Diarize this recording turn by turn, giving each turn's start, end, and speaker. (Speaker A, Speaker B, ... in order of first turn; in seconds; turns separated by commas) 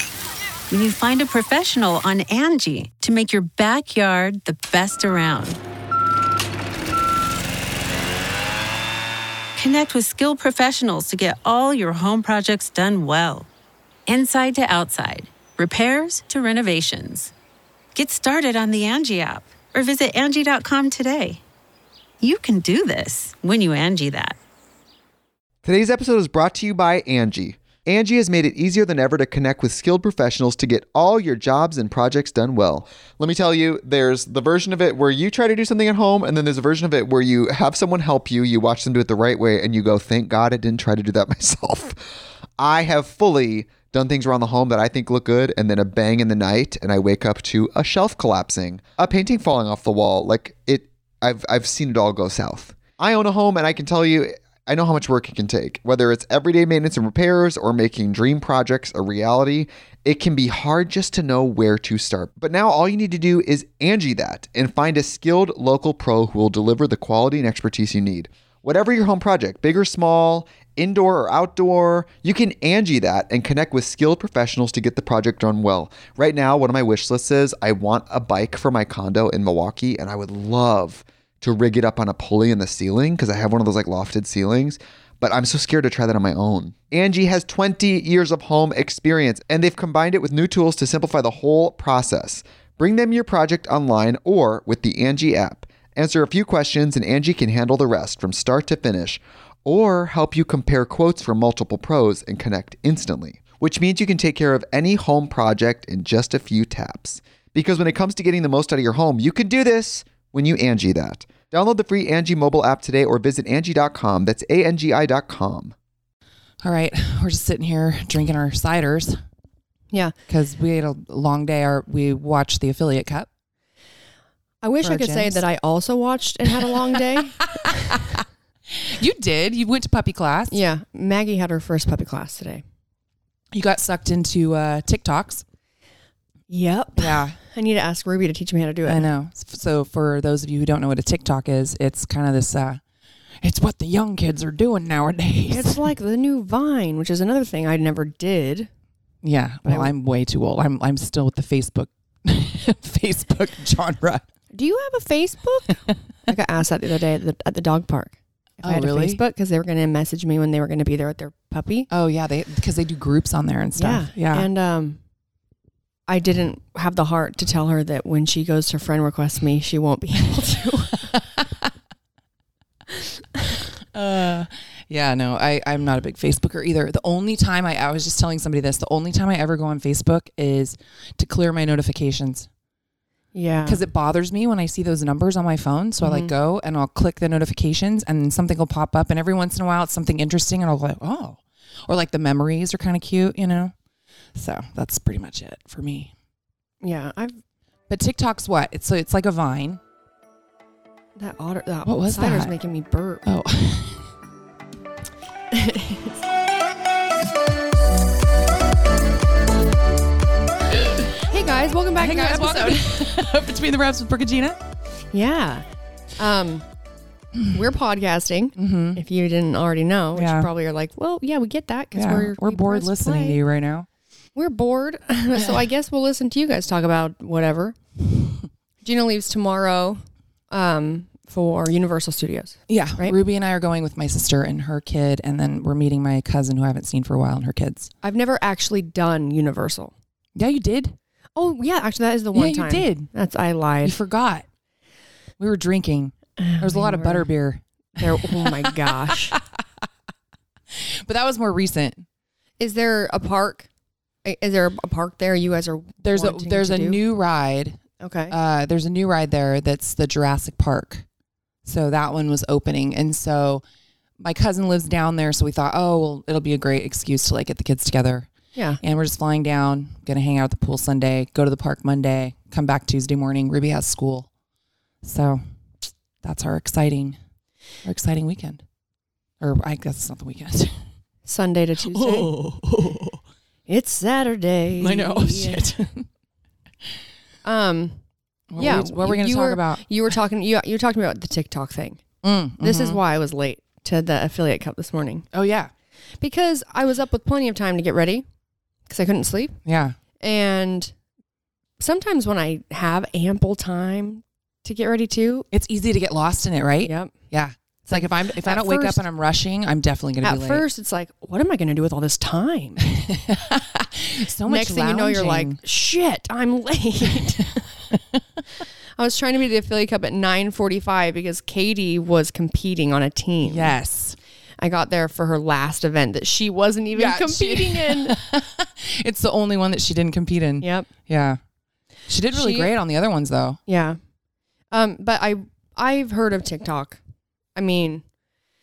Speaker A: 0.7-5.6, Speaker A: 9.6-13.5, Speaker A: 14.1-17.3, Speaker A: 17.9-21.4, Speaker A: 22.2-24.4, Speaker B: 25.6-42.0, Speaker B: 42.6-115.7, Speaker C: 116.6-119.2, Speaker C: 120.3-123.3, Speaker D: 124.6-128.1, Speaker C: 124.8-125.4, Speaker C: 128.7-130.6, Speaker D: 130.5-132.6, Speaker C: 133.5-135.4, Speaker D: 136.5-139.1, Speaker C: 137.0-137.3, Speaker C: 138.8-142.8, Speaker C: 143.4-145.8, Speaker D: 145.5-148.7, Speaker C: 149.2-154.2, Speaker D: 149.6-149.9, Speaker D: 154.5-161.9, Speaker C: 158.6-159.2, Speaker C: 161.9-164.5, Speaker D: 163.8-165.0, Speaker D: 166.1-171.2, Speaker C: 173.9-182.5, Speaker D: 183.3-183.8, Speaker C: 183.7-193.7, Speaker D: 186.0-186.3, Speaker C: 194.3-196.1, Speaker D: 196.8-197.4, Speaker C: 197.9-199.8, Speaker D: 201.2-203.2, Speaker C: 201.8-202.5, Speaker C: 203.2-204.1, Speaker D: 205.5-206.2, Speaker D: 211.3-213.1, Speaker C: 211.9-214.6, Speaker D: 215.1-215.6, Speaker D: 216.2-216.6, Speaker D: 217.5-223.4, Speaker C: 218.6-219.0, Speaker C: 220.1-220.5, Speaker C: 221.9-223.9, Speaker D: 224.3-227.8, Speaker C: 225.3-225.6, Speaker D: 228.8-233.2, Speaker C: 232.7-237.9, Speaker D: 238.0-239.9, Speaker C: 240.3-241.0, Speaker D: 241.3-243.9, Speaker C: 242.3-243.1, Speaker C: 243.8-244.4, Speaker C: 245.4-249.6, Speaker D: 246.4-247.3, Speaker D: 248.0-249.3, Speaker C: 250.7-252.0, Speaker D: 252.6-253.7, Speaker D: 254.2-257.0, Speaker C: 256.0-261.0, Speaker D: 258.0-258.4, Speaker C: 261.6-263.6, Speaker C: 264.2-268.3, Speaker C: 268.8-274.3, Speaker C: 275.0-275.4, Speaker C: 276.2-277.2, Speaker C: 277.8-278.6, Speaker C: 279.4-280.8, Speaker D: 281.2-282.4, Speaker C: 281.9-283.2, Speaker D: 283.7-285.7, Speaker C: 284.8-286.1, Speaker D: 287.4-288.0, Speaker C: 288.5-289.8, Speaker D: 288.6-292.0, Speaker C: 292.2-293.0, Speaker D: 292.6-295.2, Speaker C: 295.3-295.7, Speaker D: 296.2-298.2, Speaker D: 298.9-299.6, Speaker C: 299.6-300.0, Speaker D: 300.2-300.9, Speaker D: 301.8-305.5, Speaker C: 305.5-310.6, Speaker D: 306.8-307.1, Speaker D: 307.9-309.0, Speaker D: 310.2-312.9, Speaker C: 312.8-315.6, Speaker D: 314.5-317.7, Speaker C: 317.9-318.2, Speaker D: 319.0-323.8, Speaker C: 323.4-324.2, Speaker D: 324.6-328.2, Speaker C: 326.9-331.4, Speaker D: 330.6-330.9, Speaker C: 332.1-333.6, Speaker D: 332.3-332.7, Speaker D: 333.7-334.0, Speaker D: 334.7-337.0, Speaker D: 337.6-338.0